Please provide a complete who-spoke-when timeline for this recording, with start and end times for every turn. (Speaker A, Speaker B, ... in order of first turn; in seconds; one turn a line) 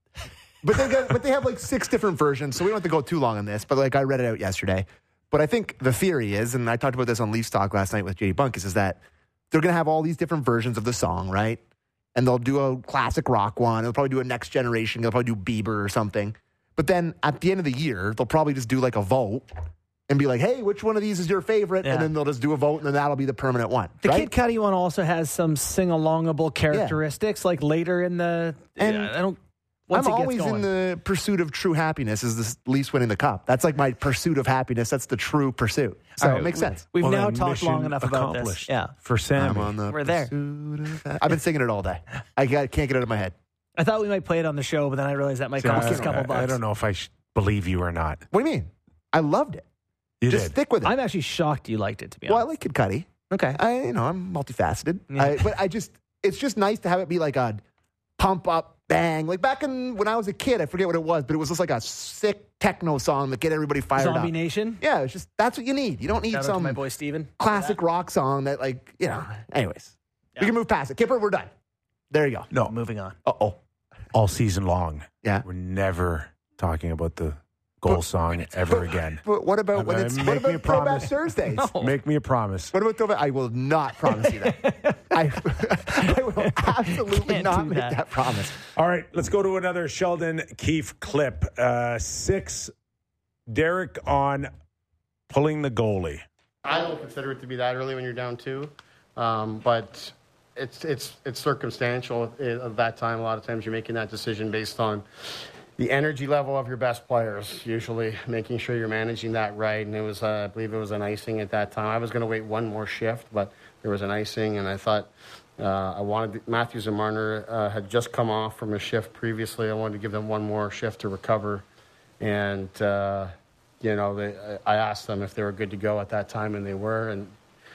Speaker A: 0.6-9.0
Speaker A: 9.5-11.6
Speaker A: 12.2-19.5
Speaker A: 20.1-24.3
Speaker B: 21.8-22.1
Speaker B: 24.0-29.4
Speaker A: 26.7-27.0
Speaker A: 28.8-29.1
Speaker B: 29.9-30.7
Speaker A: 29.9-36.9
Speaker B: 36.2-38.9
Speaker C: 37.0-39.8
Speaker A: 39.4-43.3
Speaker B: 39.9-40.3
Speaker B: 43.8-46.6
Speaker C: 45.6-48.2
Speaker A: 45.7-46.2
Speaker A: 48.3-49.6
Speaker C: 50.2-50.5
Speaker A: 50.3-51.0
Speaker B: 50.8-52.5
Speaker A: 52.3-57.6
Speaker B: 53.3-53.6
Speaker B: 55.1-55.5
Speaker A: 58.2-66.8
Speaker B: 64.0-64.8
Speaker B: 66.3-67.8
Speaker A: 67.4-71.5
Speaker A: 72.1-72.5
Speaker B: 72.7-73.2
Speaker A: 73.2-73.6
Speaker C: 74.1-79.2
Speaker A: 78.7-81.7
Speaker C: 79.7-81.2
Speaker B: 81.5-81.9
Speaker C: 81.8-82.7
Speaker A: 82.7-88.5
Speaker B: 84.2-85.1
Speaker B: 85.9-88.0
Speaker C: 88.8-92.7
Speaker C: 93.5-94.5
Speaker C: 95.3-96.2
Speaker D: 96.7-105.0
Speaker D: 105.8-121.6
Speaker D: 122.2-127.3